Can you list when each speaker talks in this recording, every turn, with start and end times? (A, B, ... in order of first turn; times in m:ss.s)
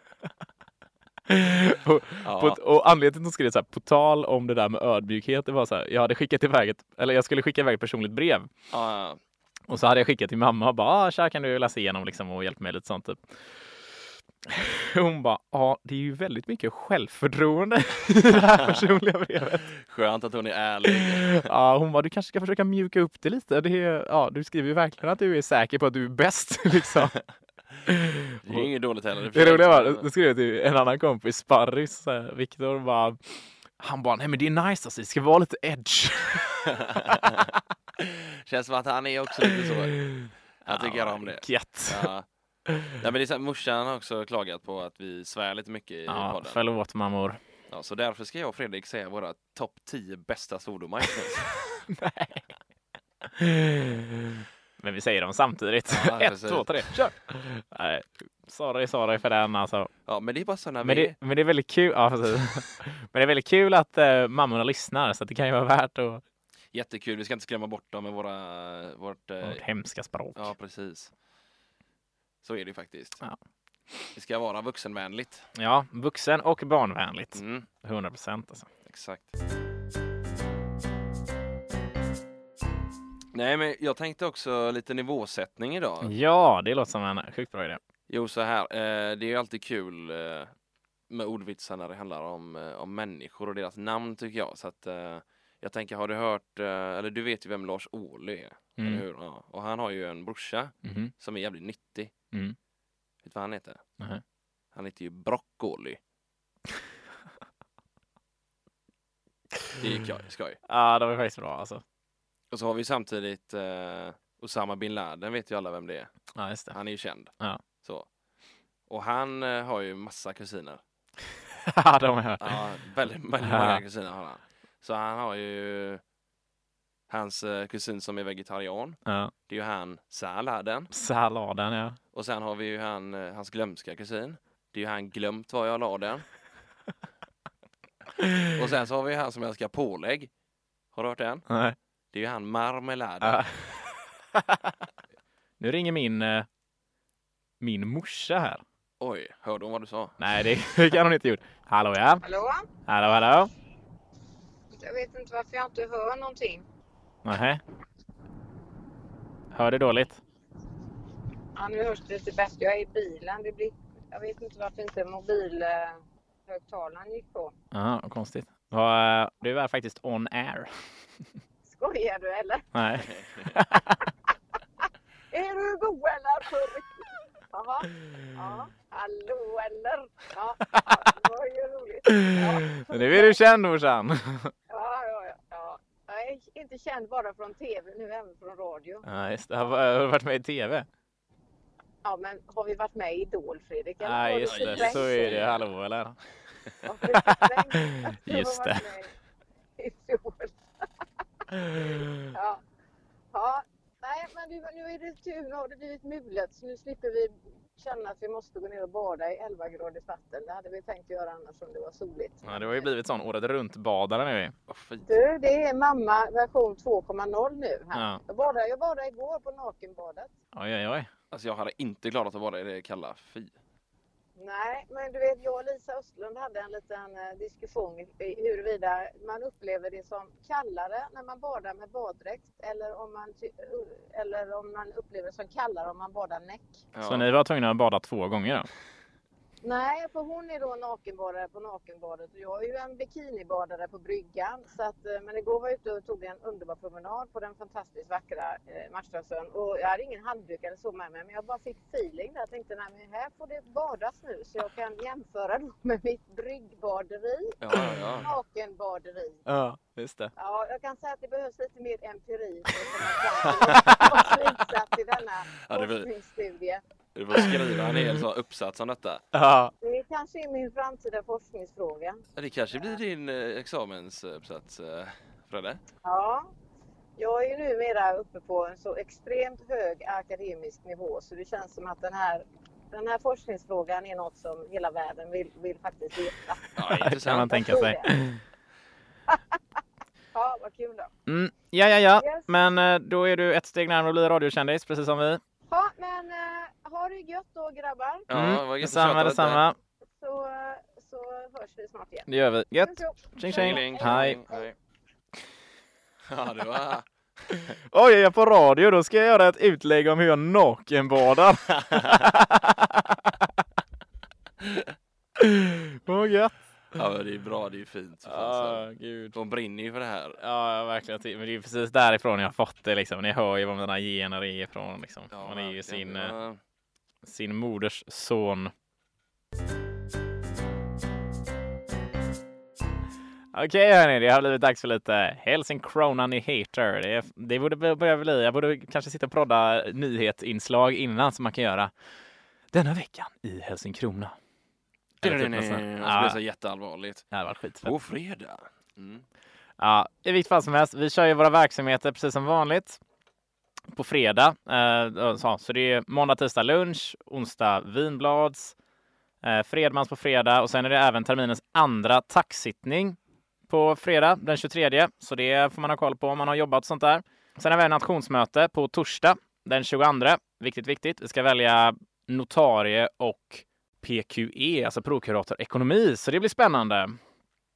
0:01.3-0:08.5 A
0:02.2-0:02.6 B
0:08.7-0:09.2 B
0:09.7-0:13.2 A
0:14.4-0:19.7 A
0:19.8-0:21.4 B
0:20.9-0:27.2 A
0:27.8-0:28.7 A
0:28.4-0:30.1 B
0:29.3-0:33.2 A
0:33.8-0:37.4 A
0:36.8-0:37.5 B
0:38.0-0:40.0 B
0:39.4-0:42.1 A
0:40.6-0:42.3 B
0:42.7-0:42.9 A
0:43.0-0:46.6 B
0:46.1-0:47.4 A
0:47.7-0:51.6 B
0:51.9-0:52.5 A
0:53.2-0:59.9 A
0:55.9-0:57.0 B
1:00.0-1:01.2 B
1:00.8-1:06.2 A
1:06.7-1:09.6 B
1:09.4-1:10.5 A
1:10.3-1:11.1 B
1:12.4-1:13.2 B
1:14.1-1:15.5 B
1:15.5-1:18.7 A
1:17.3-1:17.7 B
1:18.8-1:19.3 B
1:23.3-1:26.1 B
1:26.0-1:27.8 A
1:28.1-1:30.5 B
1:31.1-1:42.1 B
1:38.8-1:39.0 A
1:40.8-1:41.1 A
1:43.2-1:43.8 B
1:44.7-1:46.0 B
1:49.8-1:50.6 B
1:50.7-1:51.8 A
1:52.5-1:56.1 B
1:56.3-1:56.8 A
1:56.7-1:58.1 B
1:58.9-2:00.8 B
2:01.6-2:02.6 A
2:02.4-2:06.0 B
2:03.4-2:03.8 A
2:07.1-2:10.9 B
2:09.0-2:09.3 A
2:10.9-2:12.0 A
2:12.1-2:16.3 B
2:18.2-2:18.5 A
2:18.5-2:20.3 B
2:20.9-2:21.4 B
2:21.5-2:21.8 A
2:22.1-2:23.4 B
2:23.2-2:24.7 A
2:25.6-2:26.5 A
2:27.6-2:28.6 A
2:29.0-2:30.1 B
2:30.2-2:32.2 A
2:32.2-2:32.6 C
2:32.9-2:33.5 A
2:34.7-2:36.6 C
2:37.2-2:37.6 A
2:39.5-2:40.2 A
2:41.6-2:47.5 C
2:47.7-2:50.7 A
2:51.6-2:53.0 C
2:52.7-2:54.1 A
2:53.2-2:53.5 B
2:55.3-3:03.4 C
3:02.0-3:04.5 A
3:04.7-3:09.0 C
3:09.0-3:10.9 A
3:12.0-3:15.4 C
3:14.0-3:16.2 A
3:14.4-3:15.6 B
3:16.8-3:19.1 C
3:17.1-3:18.8 A
3:19.8-3:20.6 C
3:21.5-3:22.3 A
3:21.6-3:22.6 C
3:23.3-3:32.9 C
3:32.4-3:34.5 A
3:34.7-3:35.0 B
3:35.0-3:40.3 C
3:37.9-3:38.2 A
3:40.5-3:41.1 A
3:41.3-3:43.5 B
3:44.4-3:56.8 C
3:56.9-3:57.3 B
3:57.0-3:58.7 A
3:59.6-4:19.4 C
4:17.6-4:18.3 B
4:19.4-4:20.3 A
4:20.4-4:26.8 C
4:23.4-4:24.1 A
4:23.7-4:24.3 B
4:25.6-4:26.1 B
4:27.1-4:29.2 B
4:29.3-4:29.7 A
4:29.8-4:32.2 C
4:32.4-4:35.8 B
4:36.0-4:36.5 C
4:37.2-4:46.6 C
4:46.8-4:47.8 B
4:46.8-4:48.4 A
4:47.2-4:48.2 C
4:49.3-4:49.6 C
4:50.3-4:51.1 C
4:51.3-4:55.4 A
4:52.2-4:52.5 C
4:55.7-4:58.3 C
4:58.3-4:59.6 B
4:58.3-4:59.8 A
5:00.2-5:04.6 C
5:02.3-5:04.4 A
5:03.5-5:04.7 B
5:06.3-5:07.7 B
5:07.5-5:13.3 A
5:15.4-5:16.6 A
5:16.9-5:20.4 B
5:18.2-5:19.4 A
5:20.4-5:26.3 A
5:25.3-5:26.6 B
5:27.2-5:28.7 A
5:33.5-5:41.9 A
5:42.7-5:44.4 A
5:45.2-5:47.2 B
5:45.2-5:46.4 A
5:47.3-5:47.9 A
5:47.8-5:49.2 B
5:49.8-5:53.0 A
5:53.9-5:58.7 A
5:59.4-6:17.2 A